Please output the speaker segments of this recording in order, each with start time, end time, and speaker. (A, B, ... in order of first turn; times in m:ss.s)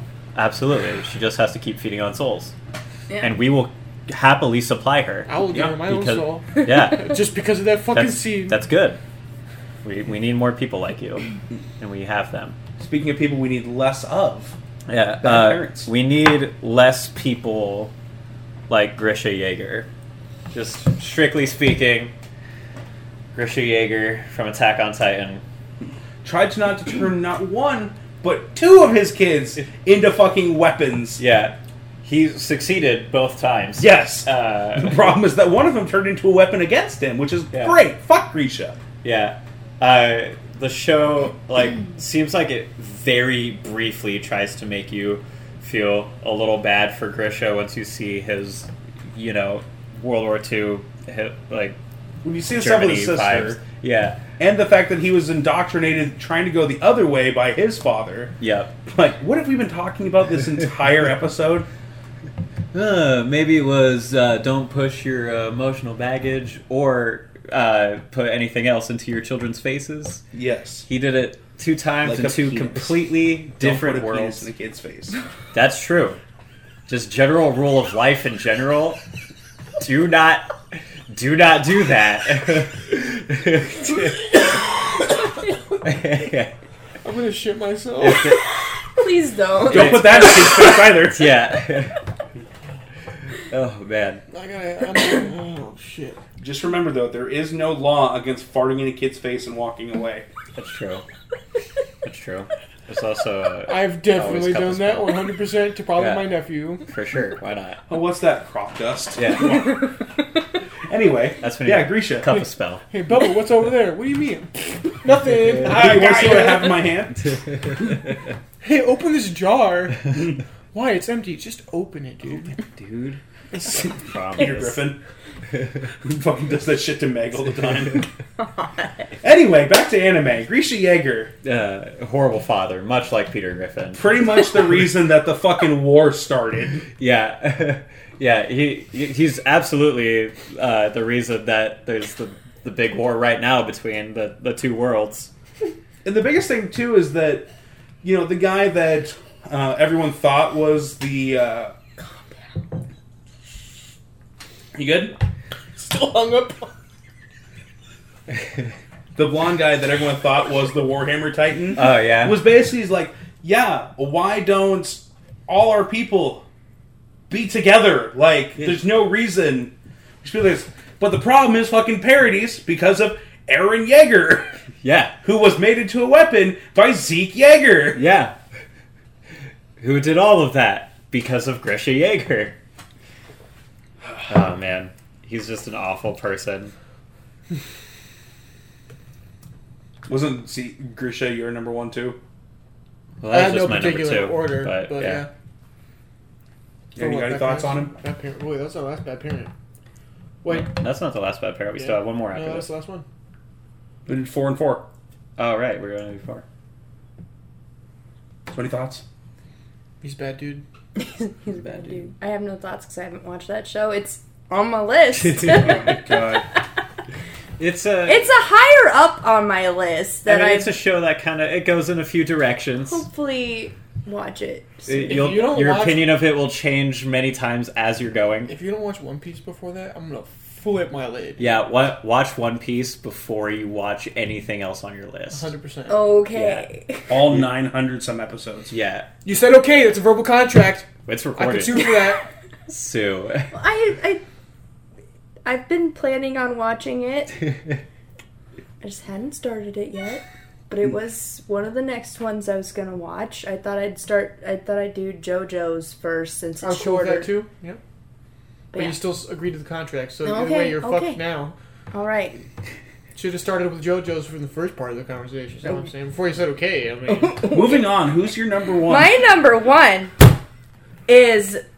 0:00.3-0:02.5 A
0:03.2-0:07.2 A
0:05.3-0:08.6 B
0:07.9-0:09.0 A
0:09.8-0:11.3 A
0:11.8-0:12.6 A
0:12.8-0:14.6 C
0:14.9-0:17.9 A
0:15.2-0:15.9 C
0:18.7-0:19.9 A
0:20.5-0:22.1 A
0:23.3-0:25.4 A
0:26.2-0:31.2 C
0:31.2-0:35.1 A
0:33.8-0:38.8 C
0:37.5-0:37.8 A
0:39.0-0:51.8 A
0:52.2-0:53.6 C
0:52.6-0:54.2 A
0:54.4-0:58.3 C
0:58.4-0:58.7 A
0:58.9-1:01.7 C
1:02.7-1:10.2 A
1:10.3-1:10.9 C
1:10.9-1:14.5 A
1:12.0-1:15.2 C
1:15.5-1:16.2 A
1:16.9-1:19.0 A
1:19.8-1:20.5 A
1:21.1-1:24.5 A
1:25.8-1:26.5 A
1:27.0-1:28.3 B
1:28.0-1:28.4 A
1:29.0-1:30.7 D
1:29.7-1:31.3 C
1:29.7-1:32.0 A
1:33.5-1:34.2 A
1:34.3-1:36.2 B
1:36.4-1:40.3 C
1:40.5-1:41.0 A
1:42.0-1:45.3 A
1:43.7-1:46.8 B
1:46.0-1:47.8 A
1:47.9-1:49.9 C
1:49.2-1:49.7 A
1:50.9-1:52.4 C
1:51.4-1:52.8 A
1:52.9-1:56.8 B
1:55.4-1:56.0 A
1:55.6-1:57.8 C
1:58.6-2:02.6 B
2:02.4-2:04.8 A
2:03.5-2:03.8 B
2:04.3-2:05.0 C
2:06.0-2:08.0 C
2:09.2-2:11.3 C
2:11.4-2:14.1 A
2:13.9-2:16.8 C
2:17.0-2:25.3 A
2:26.0-2:27.5 C
2:28.0-2:31.7 C
2:34.7-2:35.2 C
2:35.8-2:36.7 B
2:39.2-2:46.4 C
2:41.8-2:42.4 A
2:47.3-2:54.6 C
2:54.8-2:55.2 A
2:55.2-2:58.0 C
2:57.9-2:58.3 A
2:59.8-3:02.6 A
3:04.3-3:06.7 A
3:10.1-3:12.2 C
3:13.2-3:15.2 A
3:13.3-3:15.3 B
3:16.9-3:17.9 C
3:17.0-3:19.5 B
3:20.4-3:20.7 B
3:20.5-3:22.7 A
3:21.8-3:23.0 B
3:24.0-3:24.8 C
3:25.4-3:26.4 A
3:28.5-3:29.0 C
3:30.0-3:30.6 B
3:31.0-3:36.2 D
3:35.4-3:36.4 C
3:37.6-3:38.2 A
3:38.0-3:40.7 D
3:40.2-3:43.0 A
3:42.8-3:45.2 D
3:44.9-3:48.5 A
3:45.0-3:46.2 B
3:48.5-3:51.5 B
3:51.4-3:55.5 A
3:55.3-3:56.0 B
3:55.9-3:57.1 D
3:56.3-3:56.6 A
3:57.1-3:58.7 C
3:58.7-3:59.1 A
3:59.2-4:02.2 B
4:01.0-4:02.1 A
4:02.7-4:03.5 A
4:03.5-4:04.2 D
4:05.4-4:07.3 D
4:08.8-4:17.3 D
4:16.6-4:17.8 B
4:18.7-4:19.0 D
4:18.7-4:21.5 B
4:20.2-4:21.2 D
4:21.9-4:22.4 D
4:23.1-4:27.5 B
4:27.1-4:27.9 D
4:27.5-4:29.1 C
4:28.8-4:30.2 D
4:31.1-4:31.6 D